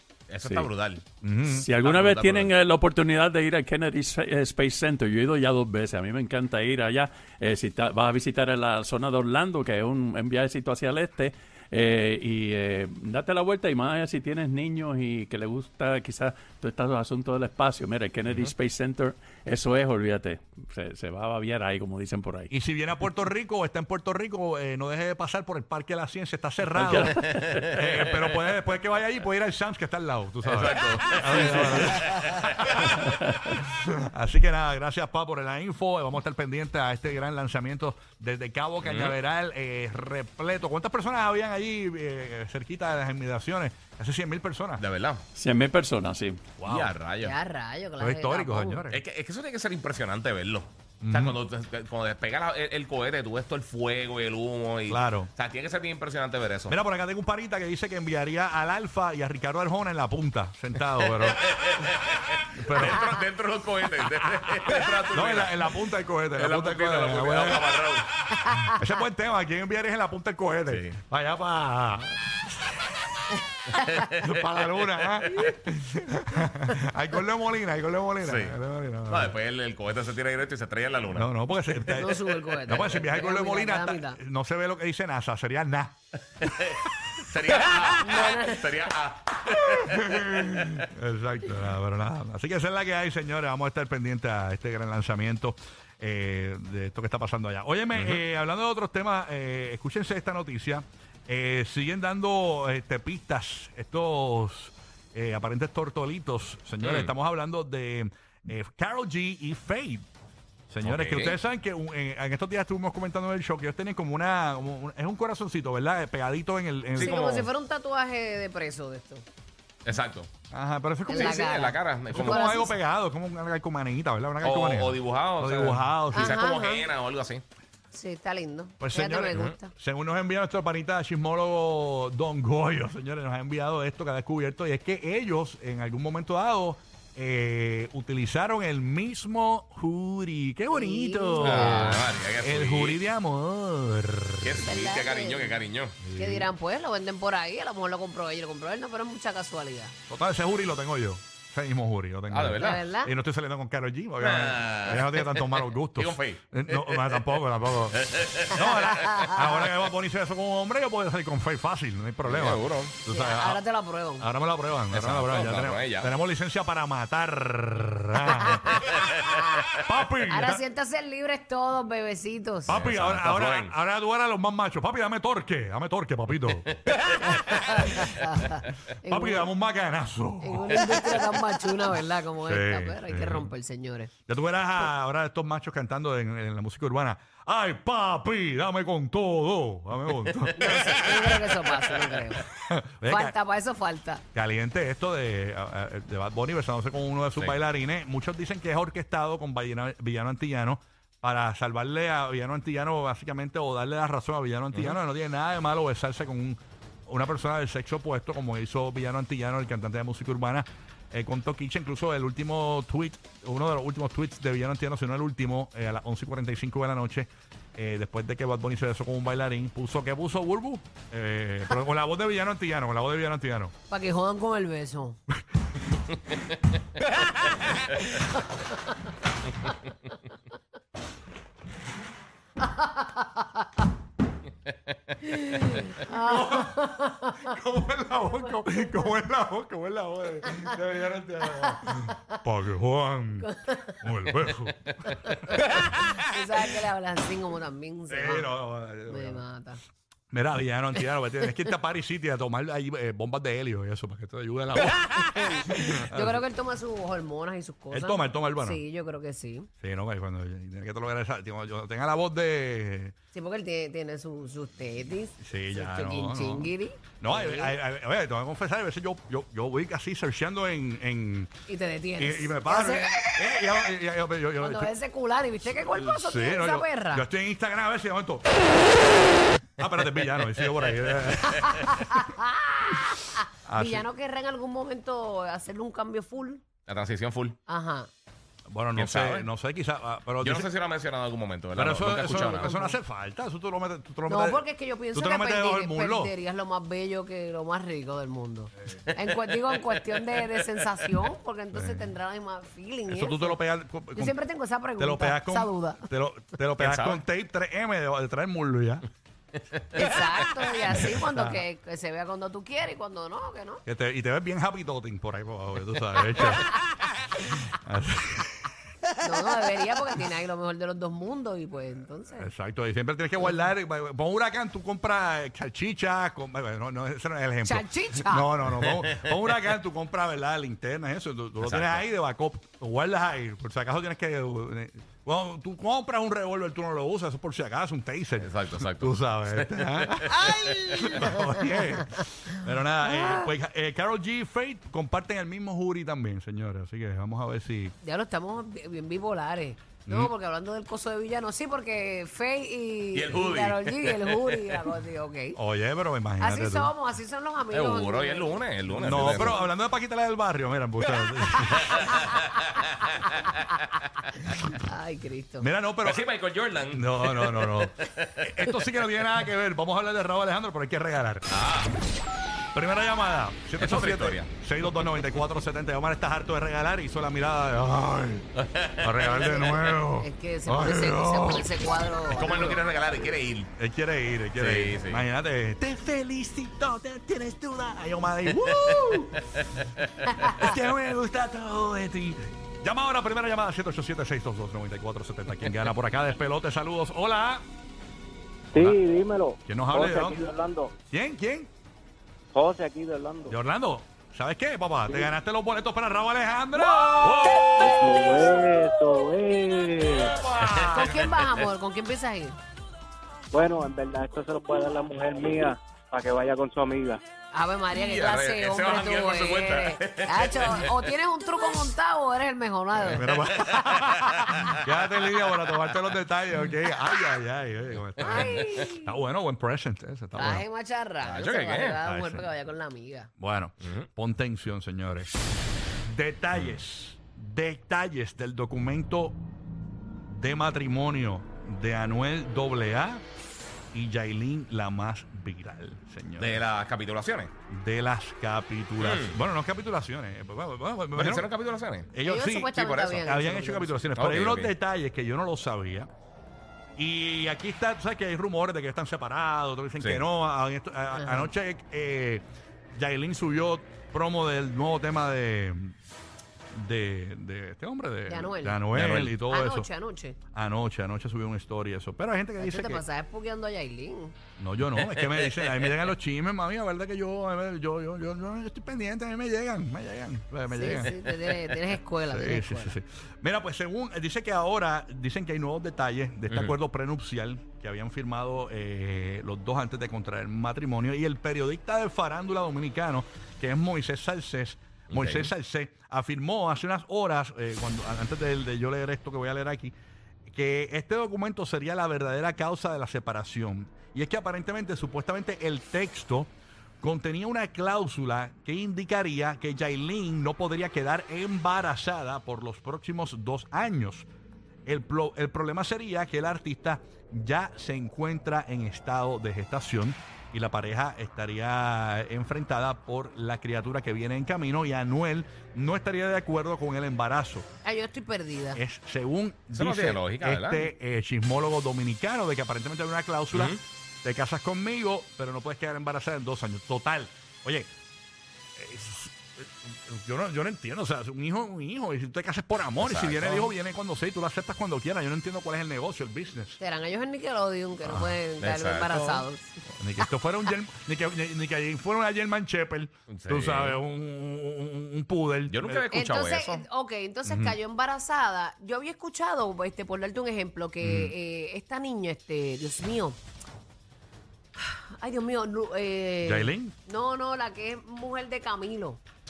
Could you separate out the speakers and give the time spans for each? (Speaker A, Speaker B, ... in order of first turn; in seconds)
Speaker A: 0.3-1.0, 1.8-2.5, 18.3-18.5, 27.2-28.4, 30.4-32.7, 38.8-39.1, 44.8-45.2, 46.6-47.3, 48.9-56.8, 61.1-65.7, 66.3-68.1, 70.7-71.0, 73.8-74.5, 75.2-75.5, 78.2-82.0, 86.4-90.8, 97.9-98.2, 106.8-107.1, 110.8-111.4, 116.9-117.2, 119.8-120.3, 121.1-122.6, 124.4-127.4, 141.4-143.0, 144.4-146.0, 152.3-152.8, 154.2-157.3, 158.0-158.8, 162.2-162.9, 164.9-166.1, 172.7-173.7, 176.8-178.0, 190.3-191.0, 197.3-197.6, 204.7-205.0, 286.9-287.6, 288.9-289.5, 290.4-292.7, 299.1-300.6, 306.8-307.2, 309.7-310.3, 328.8-329.2, 331.6-332.0, 338.4-340.9, 353.1-354.6, 357.7-359.6, 361.5-363.5, 366.0-368.4, 371.5-371.9, 373.8-374.5, 378.6-379.8, 382.3-383.7, 384.6-385.2, 388.5-390.1, 410.4-411.6, 417.9-420.9, 423.8-424.7, 428.2-428.8, 431.2-432.0, 433.8-434.1, 446.4-447.5, 449.0-449.4, 451.1-452.1, 452.7-453.2, 454.1-454.7, 460.0-460.2, 468.9-469.4, 475.0-475.8, 486.5-486.7, 495.1-495.5, 529.7-530.9, 533.5-533.8, 543.0-543.7, 548.6-549.4, 553.3-554.0, 555.7-556.8
Speaker B: 1.2-1.7, 22.5-32.9, 33.6-44.8, 46.6-46.9, 48.0-49.0, 51.0-51.4, 54.9-55.3, 56.7-61.5, 62.5-63.1, 64.2-67.8, 68.6-72.9, 74.1-79.3, 81.1-86.0, 89.7-110.0, 110.7-117.5, 120.5-121.5, 122.1-126.4, 128.8-144.7, 146.0-146.5, 150.1-163.6, 164.2-169.1, 169.7-170.6, 172.7-178.3, 179.0-181.2, 182.4-183.5, 184.3-191.2, 192.4-193.3, 194.3-223.7, 236.0-246.2, 248.1-249.4, 250.3-256.4, 257.9-258.8, 259.8-263.1, 265.4-271.5, 272.2-274.9, 275.6-278.6, 279.8-282.3, 283.7-284.1, 288.7-290.7, 291.7-296.3, 301.7-302.1, 303.1-304.4, 305.0-309.1, 310.8-311.6, 313.9-318.7, 322.4-347.9, 350.1-350.3, 355.5-356.9, 358.9-362.1, 365.6-366.2, 366.9-371.5, 372.7-378.5, 379.0-381.7, 383.8-389.4, 390.5-397.6, 398.7-399.0, 399.6-400.4, 401.1-401.7, 403.5-407.9, 423.1-430.6, 432.0-432.4, 433.4-435.4, 436.0-439.4, 440.2-443.2, 443.9-446.6, 447.7-451.5, 452.1-456.1, 457.0-462.4, 462.9-465.9, 466.7-469.9, 470.5-473.0, 474.6-481.2, 482.3-499.9, 500.5-514.3, 514.9-527.6, 528.7-537.9, 538.8-546.8, 548.0-548.4, 550.0-556.0, 557.5-557.8, 561.0-561.3, 566.4-566.9
Speaker C: 1.5-22.5, 26.7-27.7, 31.4-31.9, 33.0-33.5, 45.4-46.5
Speaker D: 47.2-48.9, 68.4-68.8, 73.8-74.0, 81.9-84.2, 88.0-88.7, 117.0-119.2, 121.0-122.8, 126.1-126.9, 127.9-129.7, 140.7-142.1, 144.6-145.6, 146.1-149.9, 152.6-153.1, 158.8-159.6, 163.1-164.3, 168.3-169.6, 170.3-172.8, 177.3-179.5, 180.4-184.1, 190.6-192.4, 193.1-194.2, 223.9-225.2, 232.6-233.6, 235.3-237.5, 238.2-239.0, 240.4-240.8, 241.4-242.3, 243.4-244.1, 245.0-248.5, 249.1-249.8, 251.4-251.7, 255.1-259.7, 263.3-267.8, 271.7-273.5, 274.6-277.2, 281.5-286.6, 287.7-288.1, 292.3-293.0, 294.3-303.6, 304.1-306.1, 309.9-313.8, 319.2-322.5, 327.6-328.5, 340.4-341.3, 343.0-343.5, 348.0-355.6, 356.4-359.6, 361.9-362.2, 364.7-365.7, 380.1-382.8, 390.4-390.7, 410.6-412.6, 417.5-423.8, 428.2-429.2, 430.3-433.3, 452.2-454.0, 461.1-461.5, 468.3-468.8, 469.4-470.4, 472.6-474.3, 480.7-482.9, 527.8-528.8, 546.8-549.8, 556.1-563.4, 564.8-569.2
Speaker E: 398.7-400.9, 402.5-403.5, 407.8-410.4, 413.5-417.2